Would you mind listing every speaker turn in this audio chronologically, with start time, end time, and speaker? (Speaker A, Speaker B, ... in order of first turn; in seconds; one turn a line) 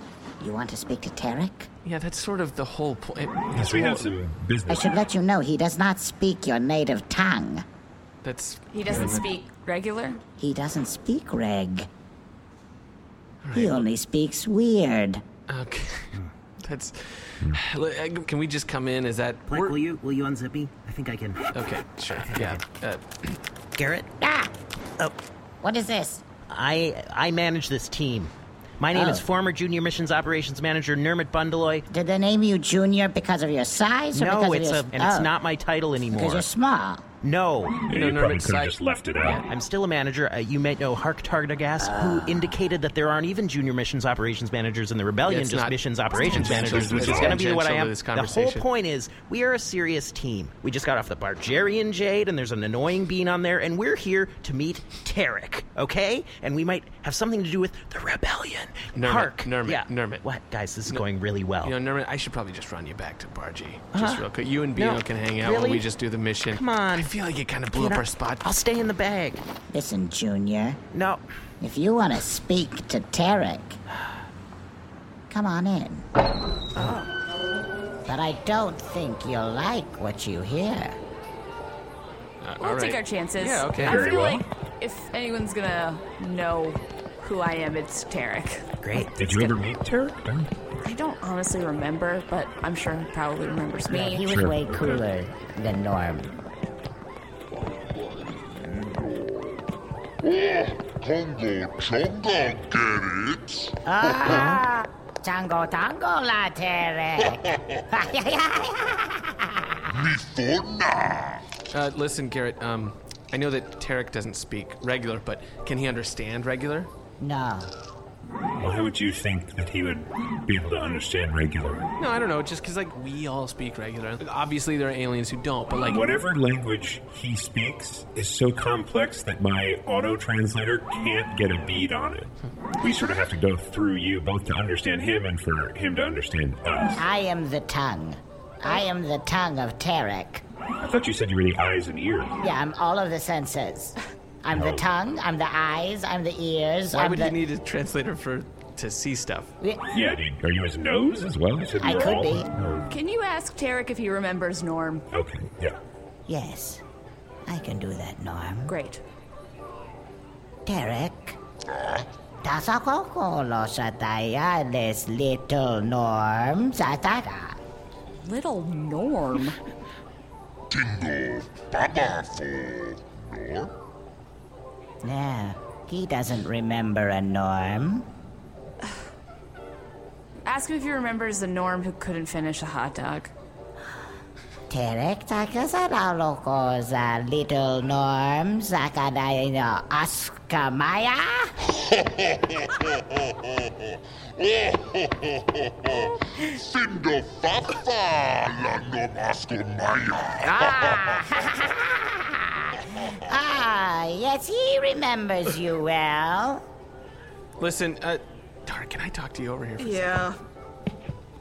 Speaker A: 0.4-1.7
Speaker B: 1.8-4.1
Speaker C: 3.5-4.9
Speaker A: 4.7-7.6
Speaker B: 8.2-9.3
Speaker D: 8.7-10.2
Speaker A: 10.4-11.9
Speaker B: 13.4-13.8
Speaker A: 13.5-15.2
Speaker B: 15.5-16.1
Speaker B: 16.6-19.8
Speaker E: 19.5-21.4
Speaker B: 21.5-23.3
Speaker E: 22.3-22.6
Speaker F: 23.8-24.1
Speaker A: 24.2-24.5
Speaker A: 25.6-26.2
Speaker F: 26.5-31.9
Speaker A: 28.9-29.2
Speaker A: 31.9-35.3
Speaker F: 34.1-36.5
Speaker A: 36.1-37.0
Speaker F: 37.2-37.9
Speaker C: 37.9-39.4
Speaker B: 37.9-39.4
Speaker F: 39.4-61.7
Speaker A: 41.8-42.6
Speaker B: 45.2-48.6
Speaker C: 46.2-47.4
Speaker B: 58.9-60.2
Speaker B: 61.6-68.5
Speaker F: 63.9-64.2
Speaker F: 64.8-65.8
Speaker F: 66.5-67.1
Speaker F: 67.7-69.4
Speaker A: 69.7-70.8
Speaker F: 70.9-71.2
Speaker A: 71.6-73.8
Speaker A: 75.3-76.0
Speaker A: 78.0-81.0
Speaker B: 82.4-84.2
Speaker D: 82.6-88.7
Speaker C: 83.8-84.4
Speaker F: 88.8-89.2
Speaker C: 89.1-90.5
Speaker D: 90.8-94.3
Speaker A: 93.9-96.4
Speaker C: 94.3-95.0
Speaker G: 97.7-99.6
Speaker G: 100.2-104.5
Speaker A: 103.8-109.9
Speaker F: 104.1-104.6
Speaker G: 107.2-107.8
Speaker G: 109.9-111.4
Speaker B: 111.7-116.9
Speaker A: 117.2-117.7
Speaker C: 118.6-121.8
Speaker B: 122.0-126.0
Speaker C: 125.7-137.0
Speaker A: 136.9-140.4
Speaker C: 140.8-142.3
Speaker A: 142.4-147.4
Speaker C: 144.5-144.8
Speaker B: 146.9-149.5
Speaker C: 149.9-152.9
Speaker A: 151.8-152.5
Speaker D: 152.9-155.1
Speaker C: 155.1-155.7
Speaker A: 156.3-156.8
Speaker A: 157.4-158.7
Speaker D: 158.7-159.0
Speaker A: 160.7-161.4
Speaker G: 161.7-162.1
Speaker A: 162.4-167.6
Speaker D: 168.2-169.6
Speaker G: 170.7-173.7
Speaker A: 175.0-178.1
Speaker D: 180.4-183.3
Speaker A: 184.7-191.5
Speaker G: 191.7-201.2
Speaker A: 200.4-206.6
Speaker B: 207.6-210.3
Speaker D: 209.8-210.4